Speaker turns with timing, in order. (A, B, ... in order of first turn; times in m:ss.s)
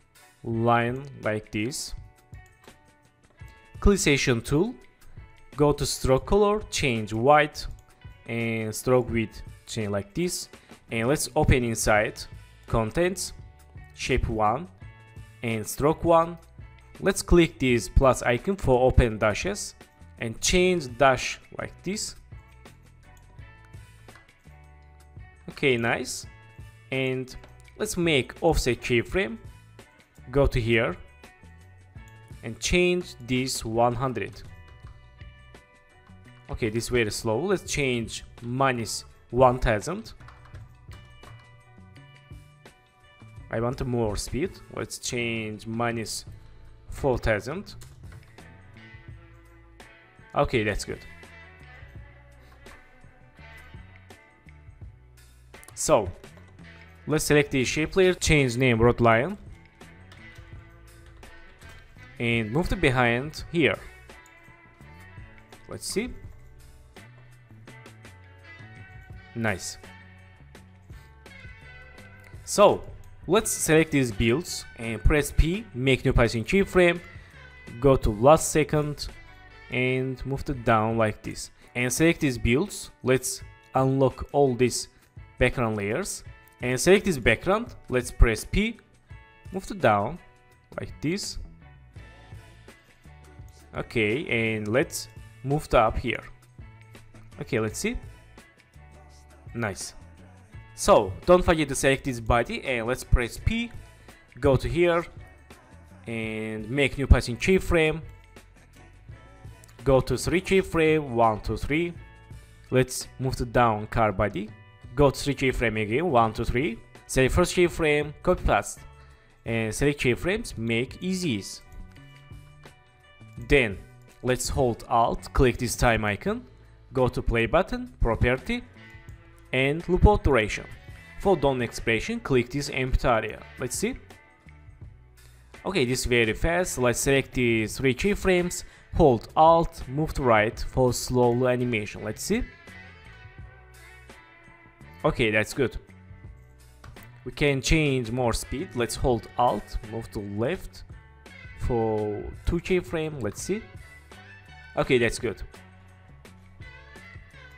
0:00.4-0:02.0 A
0:03.8-0:04.8 A
0:05.5-0:07.7 A
0:08.2-0:13.4 A
0:13.9-0:14.7 A
0:15.4-0:16.4 A
0:17.0-0:22.2 A
0:25.5-0:26.3 A
0:26.9-0:29.4 A
0:30.3-0:31.0 A
0:32.4-0:34.5 A
0:36.5-0:40.2 A
0:43.5-0:46.3 A
0:46.9-0:47.8 A
0:50.3-0:51.1 A
0:55.8-0:56.2 A
0:57.1-0:59.4 A
1:02.2-1:03.8 A
1:05.7-1:06.2 A
1:09.3-1:09.8 A
1:12.4-1:17.0 A
1:17.7-1:19.1 A
1:19.7-1:28.8 A
1:29.5-1:31.4 A
1:33.7-1:36.3 A
1:37.4-1:38.0 A
1:39.5-1:40.0 A
1:40.8-1:43.7 A
1:44.4-1:45.1 A
1:46.1-1:48.0 A
1:49.8-1:52.0 A
1:52.7-1:58.9 A
1:59.4-2:01.6 A
2:03.4-2:08.7 A
2:09.5-2:14.0 A
2:15.6-2:22.5 A
2:25.0-2:25.8 A
2:27.2-2:30.8 A
2:31.6-2:33.7 A
2:34.8-2:35.5 A